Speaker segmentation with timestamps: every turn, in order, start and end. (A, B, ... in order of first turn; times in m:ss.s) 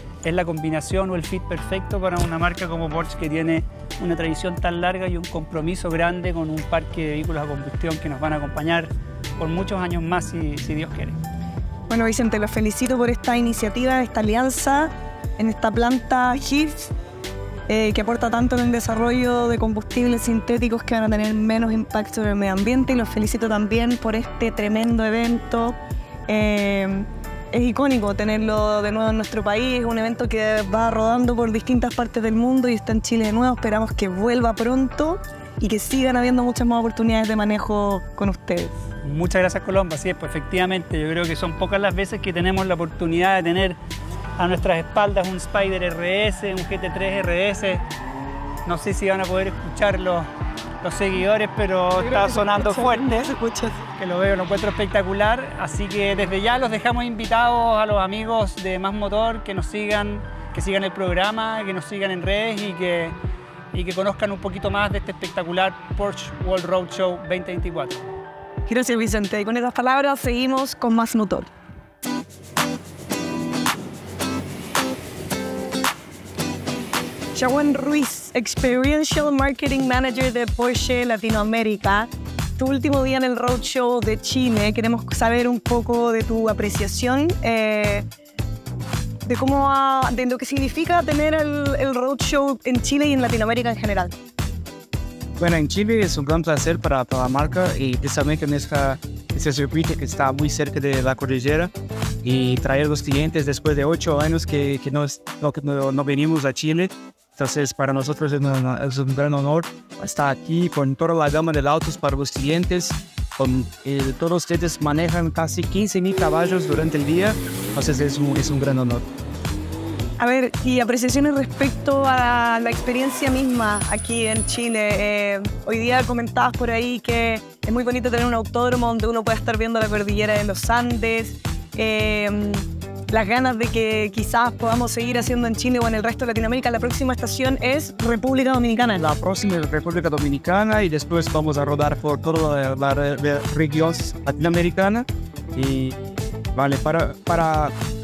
0:00.2-0:11.2 A
0:11.9-0:16.9 B
0:17.7-0:38.8 B
0:39.0-0:43.8 A
0:44.4-0:47.8 A
0:48.7-0:50.3 A
0:50.8-0:53.3 A
0:51.9-0:53.8 B
0:54.0-1:03.2 A
1:03.7-1:08.1 A
1:08.7-1:11.5 B
1:17.3-1:28.1 B
1:29.2-1:34.1 B
1:35.4-1:41.7 C
1:42.2-1:59.0 C
2:00.2-2:19.0 B
2:19.0-2:26.0 C
2:26.6-2:27.7 C